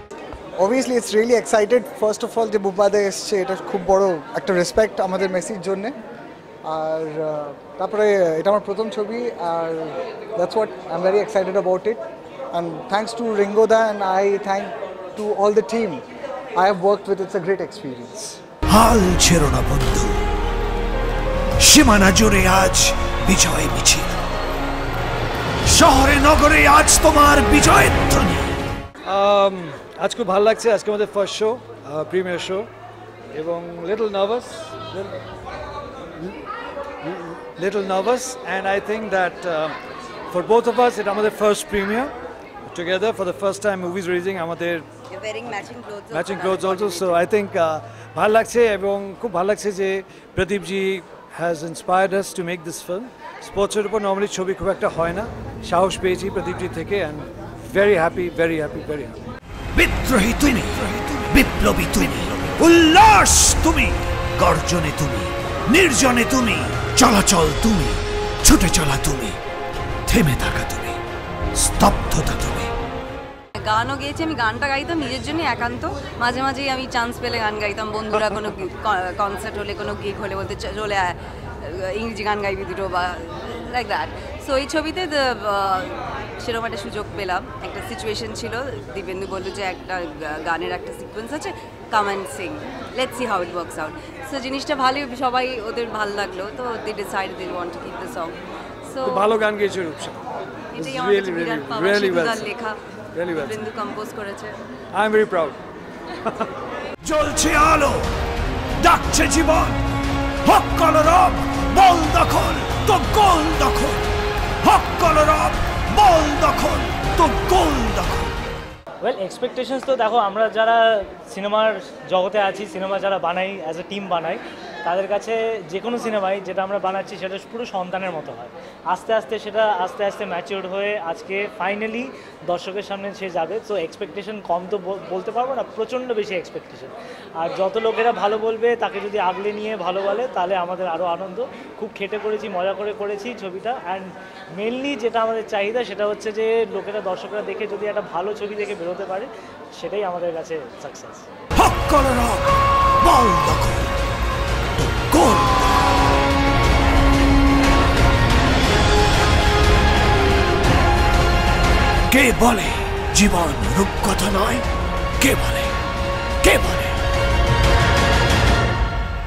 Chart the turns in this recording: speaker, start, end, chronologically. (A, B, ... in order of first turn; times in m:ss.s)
0:00.6-0:06.0 A
0:06.6-0:16.0 A
0:16.6-0:18.4 A
0:18.7-0:20.2 B
0:21.6-0:24.1 B
0:25.6-0:28.6 B
0:29.0-0:32.7 C
0:33.3-0:35.1 C
0:37.0-0:39.8 C
0:40.3-0:42.1 C
0:42.7-0:44.9 C
0:45.1-0:47.3 D
0:46.1-0:59.2 C
0:59.8-1:09.4 B
1:10.1-1:11.0 B
1:11.6-1:12.7 B
1:13.6-1:39.4 D
1:39.0-1:42.6 C
1:40.7-1:42.8 D
1:43.1-1:43.6 C
1:43.4-1:44.6 D
1:44.9-1:45.6 C
1:47.0-1:48.1 B
1:48.8-1:49.8 B
1:50.4-1:54.0 B
1:54.6-1:58.3 B
1:59.0-2:31.3 E
2:31.6-2:33.9 B
2:34.8-2:35.8 B
2:42.1-2:44.6 B
2:45.2-2:45.7 B
2:46.4-2:47.0 B